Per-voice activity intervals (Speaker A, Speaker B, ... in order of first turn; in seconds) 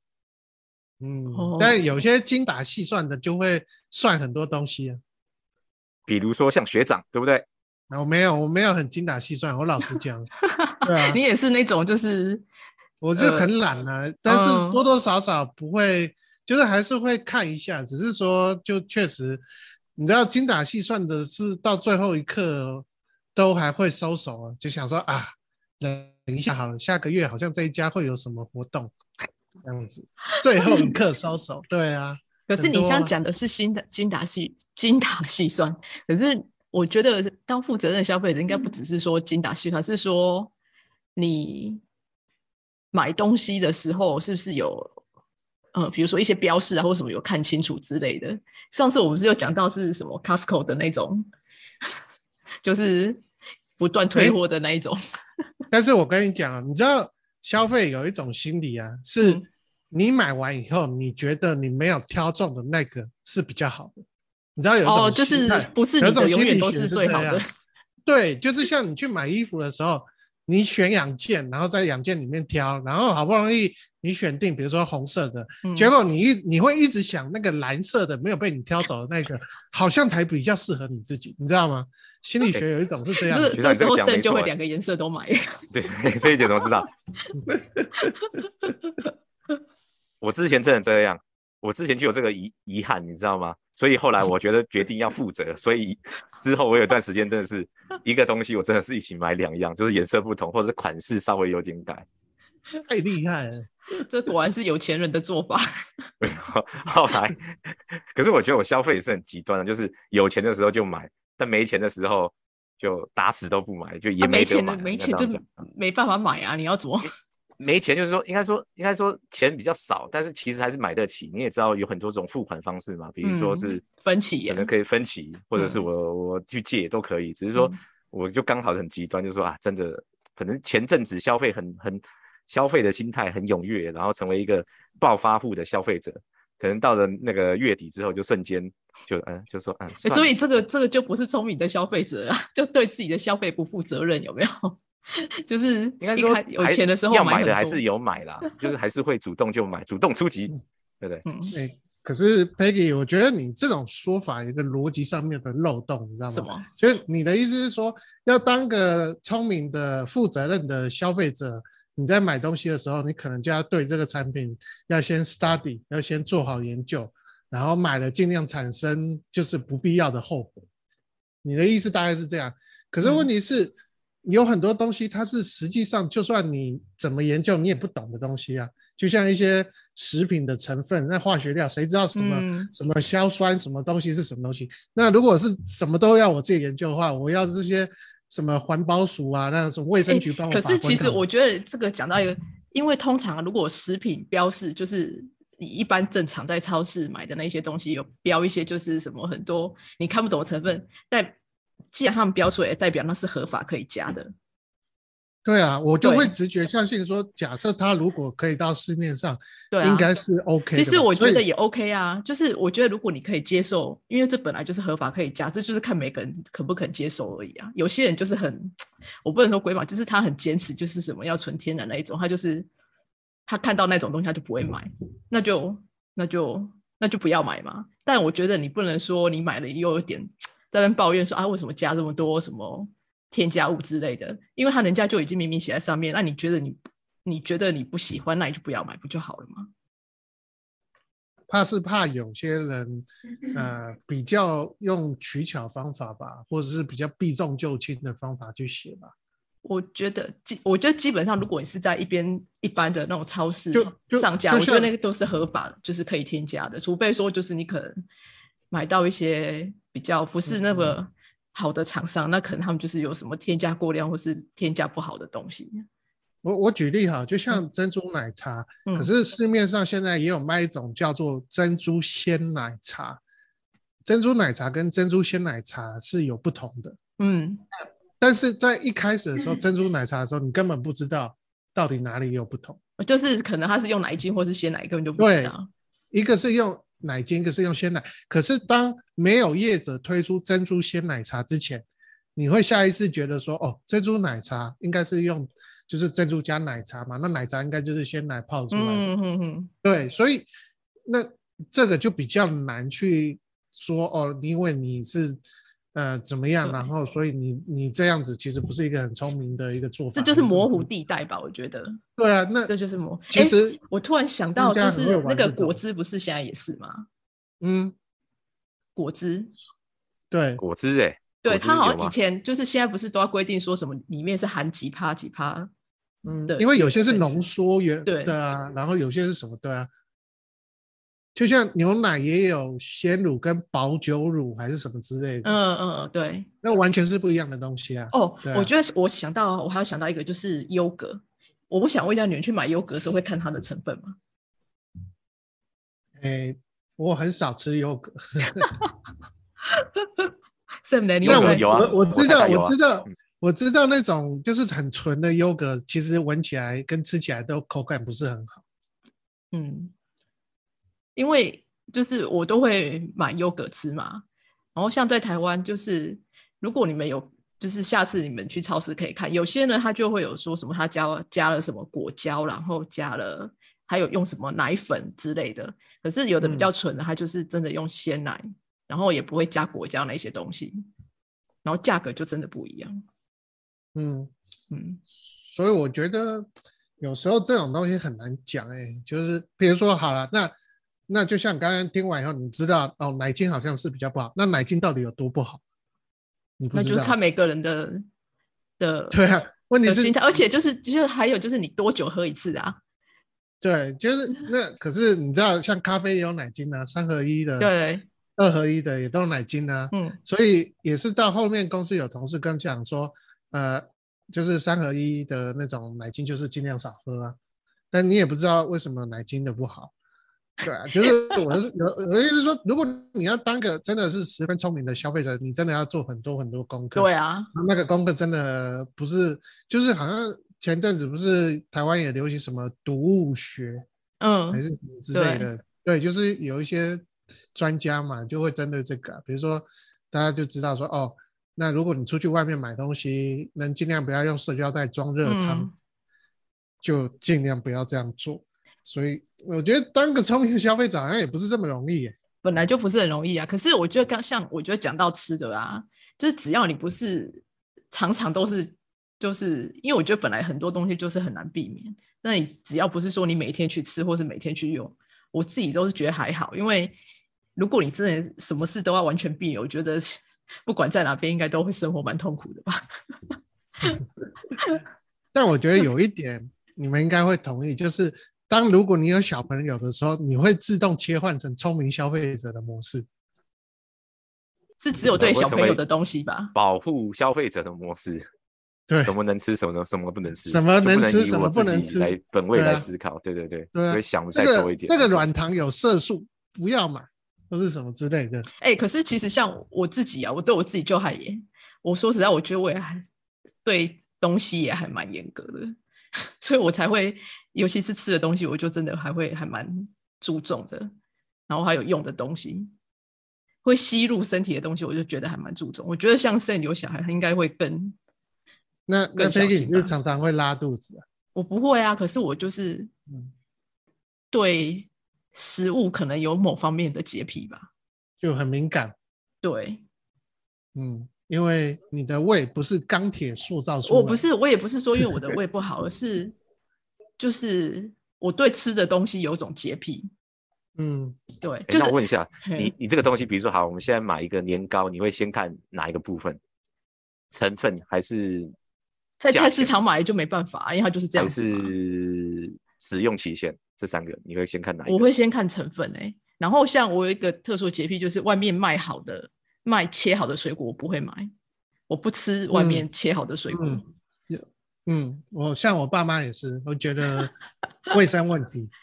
Speaker A: 1.0-5.0, 7.9-10.3, 10.8-11.2, 13.0-19.4, 19.9-28.9, 29.6-33.1, 55.7-64.0, 64.5-67.4, 68.0-83.6, 87.5-87.8, 102.8-103.7, 151.5-170.6, 171.4-191.2, 205.4-211.4, 241.5-249.1, 253.7-254.9, 260.4-260.9, 266.4-273.2, 274.0-277.0, 278.2-282.8, 285.2-285.5, 286.1-299.1, 299.8-300.5, 301.1-305.4, 305.9-310.9, 312.2-312.7, 313.3-313.8, 314.5-315.8, 317.6-317.9, 320.3-320.6, 326.2-329.9, 331.3-335.5, 336.6-338.7, 346.2-348.7, 351.2-358.6, 376.4-376.7, 383.9-384.3, 385.4-386.5, 387.0-390.5, 391.1-395.6, 396.6-397.2, 399.1-400.1, 403.6-407.7, 408.4-417.4, 417.9-419.9, 420.6-433.8, 434.5-445.7, 446.8-452.1, 475.3-483.1, 488.9-489.1, 490.4-492.9, 493.7-498.5, 518.9-521.0, 528.2-528.9, 530.8-534.2, 540.8-541.2, 562.5-562.9, 563.5-567.3, 567.9-568.7
Speaker B: 1.3-1.8, 10.4-12.4, 13.2-13.5, 14.2-14.8, 30.6-31.0, 32.5-40.5, 41.1-41.8, 42.9-45.0, 45.7-51.3, 52.6-53.2, 53.8-55.0, 64.8-67.4, 75.6-75.9, 83.3-86.8, 88.0-88.7, 104.1-105.7, 114.2-117.1, 123.2-124.7, 125.5-125.8, 140.0-147.8, 151.2-151.5, 156.3-156.7, 173.0-173.3, 182.1-182.7, 190.1-201.3, 201.9-204.3, 206.0-206.3, 209.7-210.1, 210.7-222.7, 223.5-239.7, 249.6-258.0, 258.7-265.9, 277.2-277.6, 283.0-285.7, 298.7-299.7, 310.1-312.0, 312.7-317.1, 318.9-319.5, 321.4-325.7, 326.5-327.4, 328.1-328.4, 335.4-336.5, 338.1-344.1, 349.7-350.3, 350.8-351.9, 359.5-359.9, 361.1-364.2, 364.7-380.9, 381.6-383.0, 384.7-385.0, 396.7-398.1, 398.8-399.1, 399.8-402.8, 407.6-408.1, 409.9-410.2, 421.0-421.4, 426.9-427.5, 434.2-434.6, 435.1-435.5, 445.2-445.7, 452.4-466.9, 467.6-473.4, 484.8-486.5, 498.6-503.0, 503.6-505.7, 506.4-510.9, 511.5-512.7, 513.6-518.0, 519.1-519.9, 521.3-522.9, 524.3-527.7, 529.4-529.8, 533.9-536.3, 537.2-540.1, 541.4-542.7, 549.2-551.7, 554.9-561.3, 561.9-563.8
Speaker C: 6.1-7.5, 83.5-84.5, 85.7-86.9, 90.2-102.0, 106.2-115.4, 117.6-123.8, 124.5-140.3, 146.0-151.2, 320.6-322.1, 351.2-352.8, 485.2-485.8, 486.5-488.3, 489.0-495.2, 541.7-546.4, 547.3-548.5, 549.3-549.7, 551.2-555.1